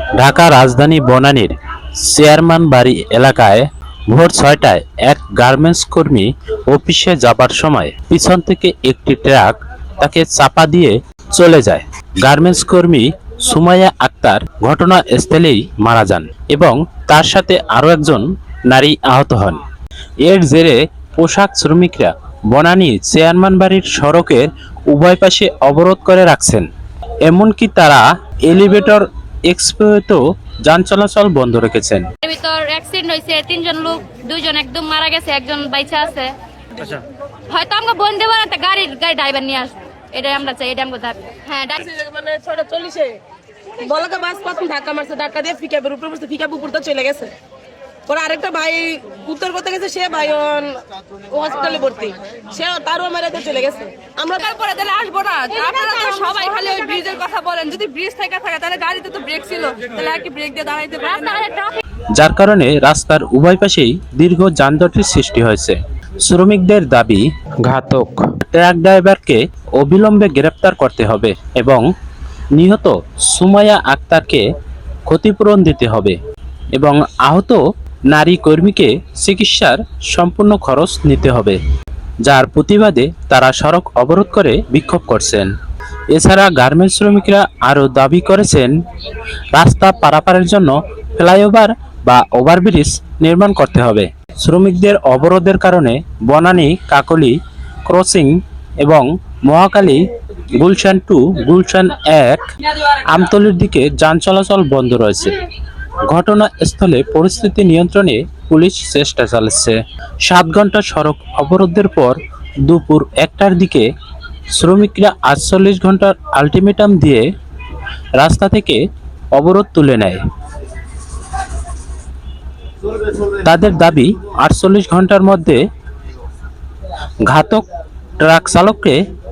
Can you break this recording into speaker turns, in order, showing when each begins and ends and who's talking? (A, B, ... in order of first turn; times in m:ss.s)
0:00.1-0:19.6 A
0:20.2-0:26.7 A
0:27.2-0:32.0 A
0:32.2-0:41.9 B
0:41.8-0:43.1 C
0:43.8-0:47.3 C
0:48.1-0:50.7 C
0:51.3-0:54.5 C
0:54.4-1:01.5 D
1:01.1-1:01.8 B
1:02.1-1:11.8 A
1:12.5-1:14.4 A
1:15.1-1:16.2 A
1:16.7-1:21.6 A
1:22.2-1:25.5 A
1:26.1-1:45.4 A
1:46.1-1:53.9 A
1:54.5-1:57.3 A
1:58.2-1:58.8 A
1:59.3-2:00.2 A
2:02.9-2:05.6 A
2:07.2-2:07.6 A
2:08.2-2:09.0 A